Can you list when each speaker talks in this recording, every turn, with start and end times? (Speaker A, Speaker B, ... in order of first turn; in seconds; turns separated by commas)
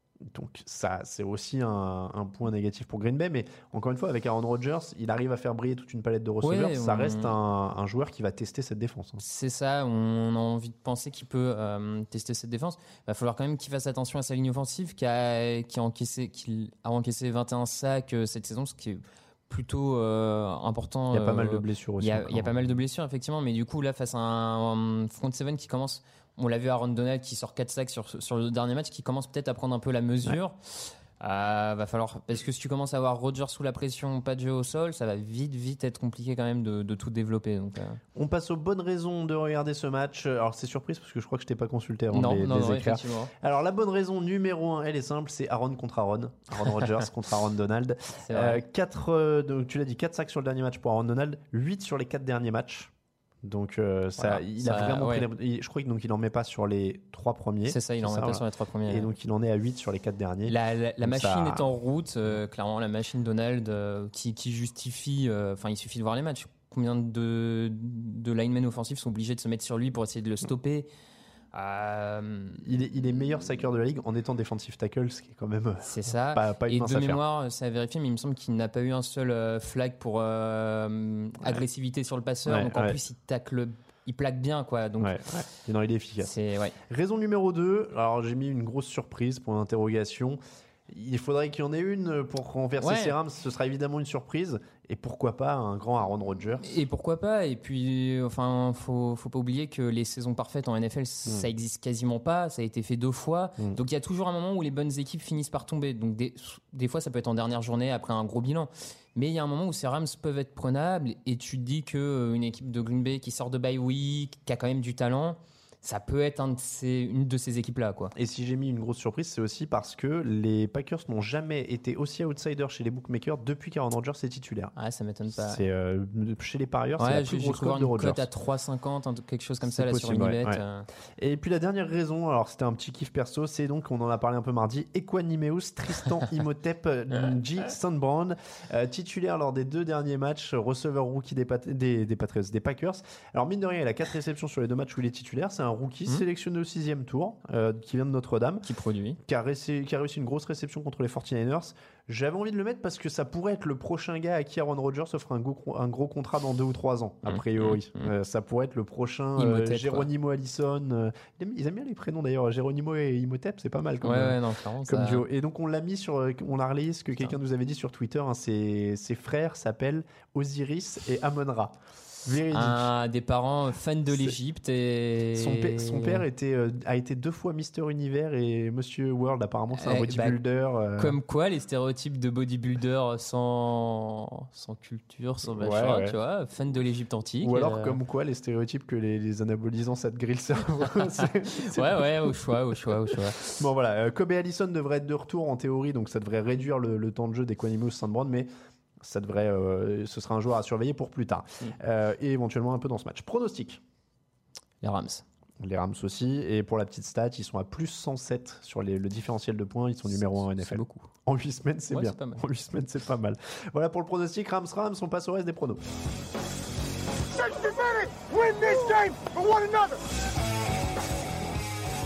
Speaker A: 0.2-9.2, Speaker B: 6.4-7.3, Speaker B: 9.2-38.0, Speaker A: 21.1-22.8, Speaker A: 38.1-52.9, Speaker B: 42.1-43.3, Speaker B: 48.2-48.6, Speaker A: 53.4-61.7, Speaker B: 54.2-55.3, Speaker B: 57.7-59.1, Speaker B: 60.5-70.9, Speaker B: 71.5-72.7, Speaker A: 72.6-77.2, Speaker B: 75.8-85.2, Speaker A: 82.5-83.0, Speaker A: 85.0-86.3, Speaker B: 86.2-86.8, Speaker A: 86.9-96.8, Speaker B: 92.8-93.2, Speaker B: 96.6-118.1, Speaker A: 118.2-124.7, Speaker B: 124.8-125.6, Speaker A: 125.3-128.3, Speaker B: 127.0-130.9, Speaker A: 129.7-130.6, Speaker A: 131.2-148.7, Speaker B: 148.7-149.2, Speaker A: 149.2-172.9, Speaker B: 157.3-158.1, Speaker B: 159.4-160.1, Speaker B: 164.0-165.3, Speaker B: 172.5-176.3, Speaker A: 175.3-181.2, Speaker B: 179.7-180.4, Speaker B: 181.0-188.0, Speaker A: 185.5-186.2, Speaker A: 187.4-192.4, Speaker B: 191.2-193.6, Speaker A: 193.1-198.5, Speaker A: 199.0-203.8, Speaker B: 204.8-205.2, Speaker A: 205.6-215.9, Speaker B: 210.1-211.1, Speaker B: 211.9-212.4, Speaker C: 217.3-220.0